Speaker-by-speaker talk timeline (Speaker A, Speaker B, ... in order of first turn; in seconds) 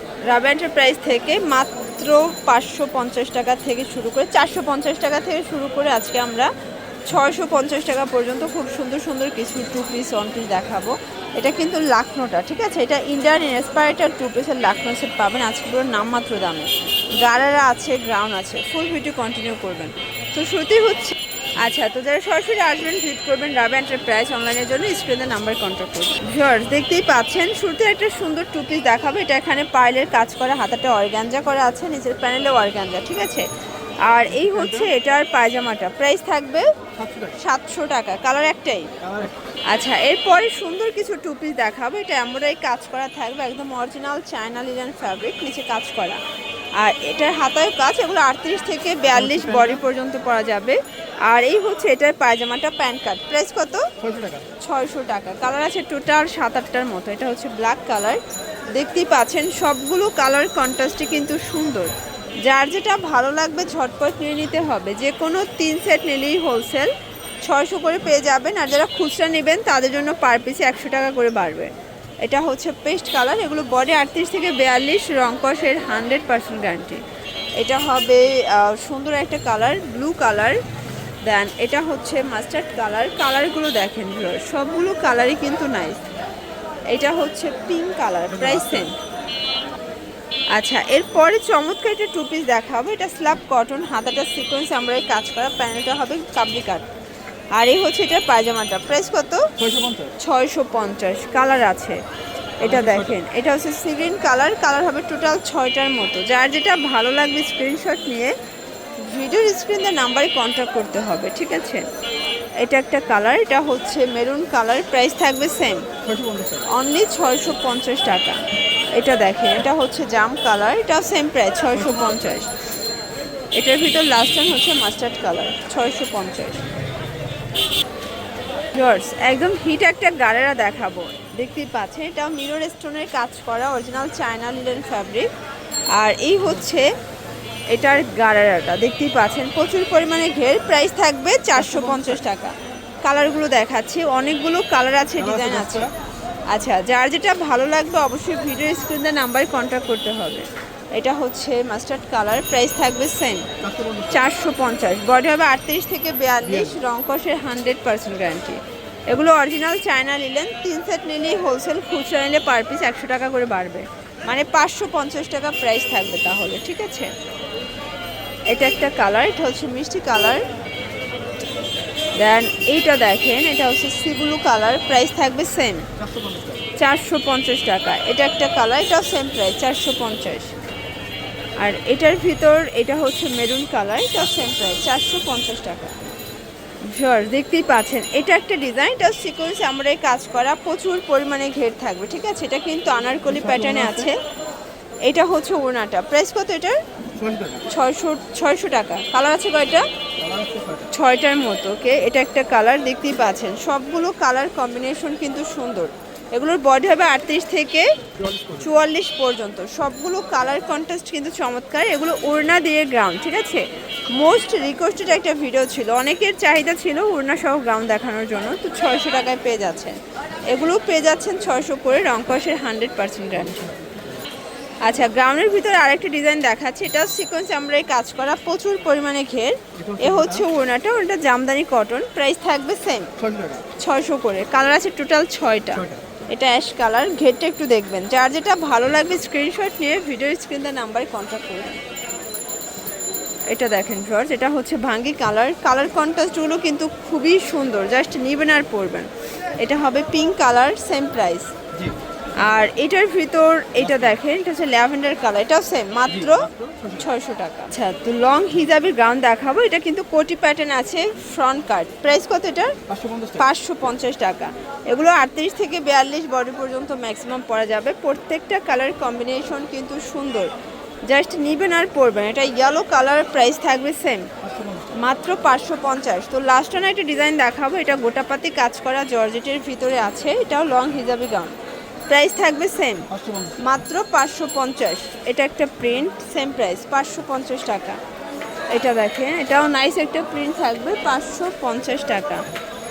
Speaker A: 0.3-6.5, 7.1-33.5, 34.0-36.7, 37.4-38.9, 39.7-46.2, 46.8-53.9, 54.6-66.9, 67.4-77.0, 77.6-80.6, 81.2-86.0, 86.9-89.0, 90.5-96.9, 97.5-99.5, 100.2-102.0, 102.6-108.3, 109.0-111.8, 112.6-115.9, 116.7-118.4, 118.9-122.5, 123.5-126.7, 128.7-135.3, 135.9-136.9, 137.7-145.9, 146.5-153.5, 154.1-167.1, 168.5-170.4, 172.2-175.9, 176.8-180.6, 181.6-186.0, 186.8-194.2, 195.0-196.8, 197.7-199.9, 200.9-207.9, 208.5-223.7, 224.8-233.1, 233.8-241.8, 243.5-251.5, 252.4-262.8, 263.3-270.5, 271.1-274.3, 274.9-281.6, 282.1-288.0, 288.7-292.4
Speaker B: 34.4-34.9, 37.0-37.4, 39.0-39.4, 49.2-49.8, 54.0-54.5, 88.4-88.9, 99.6-100.1, 102.7-103.0, 116.0-116.7, 141.7-142.1, 145.2-145.9, 153.6-154.2, 176.0-176.7, 193.3-194.1, 197.2-197.7, 200.2-200.9, 208.2-208.6, 223.6-224.0, 229.8-230.4, 233.2-233.7, 256.2-257.1, 262.9-263.4, 274.4-274.9, 283.1-283.6